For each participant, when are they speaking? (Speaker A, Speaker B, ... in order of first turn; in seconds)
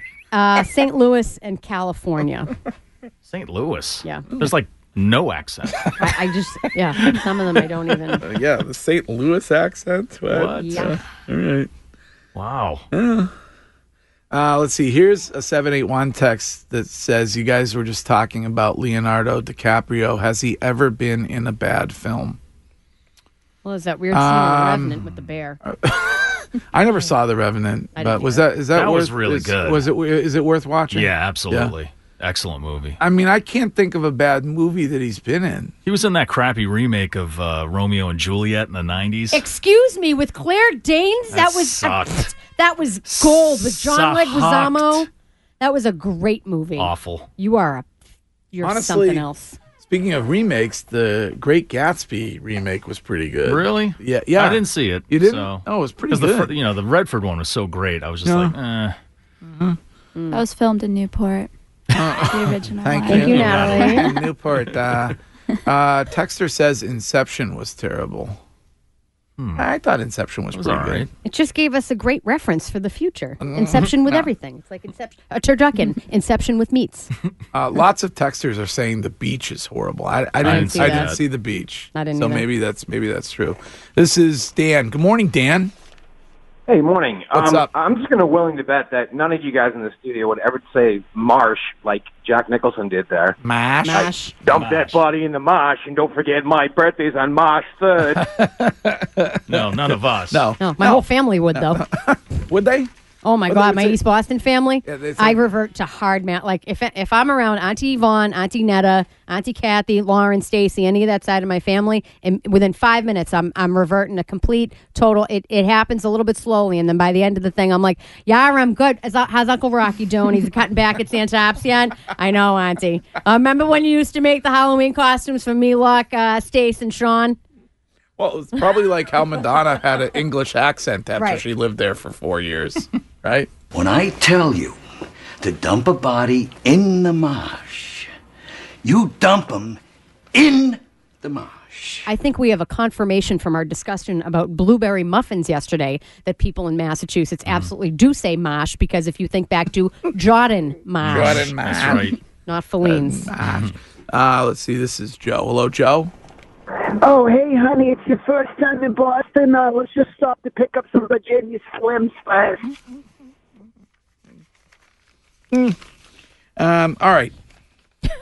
Speaker A: 0.3-2.5, 6.0-8.2, 10.6-11.0, 23.6-25.6, 27.9-28.5, 39.3-45.1, 45.6-47.9, 48.5-49.6, 60.1-60.4, 63.1-64.1, 71.2-77.1, 80.4-81.2, 81.9-82.5, 93.8-94.4, 100.6-101.8, 103.2-127.4, 131.2-131.4, 142.1-151.6, 152.4-153.3
Speaker B: 3.2-5.9, 10.3-11.0, 12.3-12.9, 28.7-29.9, 30.9-33.0, 35.9-39.5, 41.3-42.4, 43.0-45.1, 46.8-47.3, 53.4-59.0, 63.1-63.9, 69.4-69.6, 70.5-71.1, 80.4-81.2, 94.5-95.0, 99.5-100.5, 147.4-147.7, 151.0-152.2
Speaker C: 8.2-11.7, 12.9-13.3, 14.3-22.4, 24.1-25.1, 25.6-31.7, 33.0-35.7, 48.6-49.2, 49.8-56.5, 58.2-58.5, 59.4-59.8, 61.9-68.4, 69.5-71.1, 73.4-74.3, 77.5-85.7, 87.3-87.7, 93.4-94.1, 98.1-102.9, 103.5-104.0, 104.8-105.4, 128.2-133.5, 151.1-152.2, 152.8-156.1, 165.5-165.8, 166.6-167.3
Speaker D: 60.3-61.5, 62.3-64.1
Speaker E: 86.7-93.4, 94.4-98.3
Speaker F: 133.7-134.8, 135.4-138.1, 138.8-139.8, 140.3-142.1
Speaker G: 157.0-162.7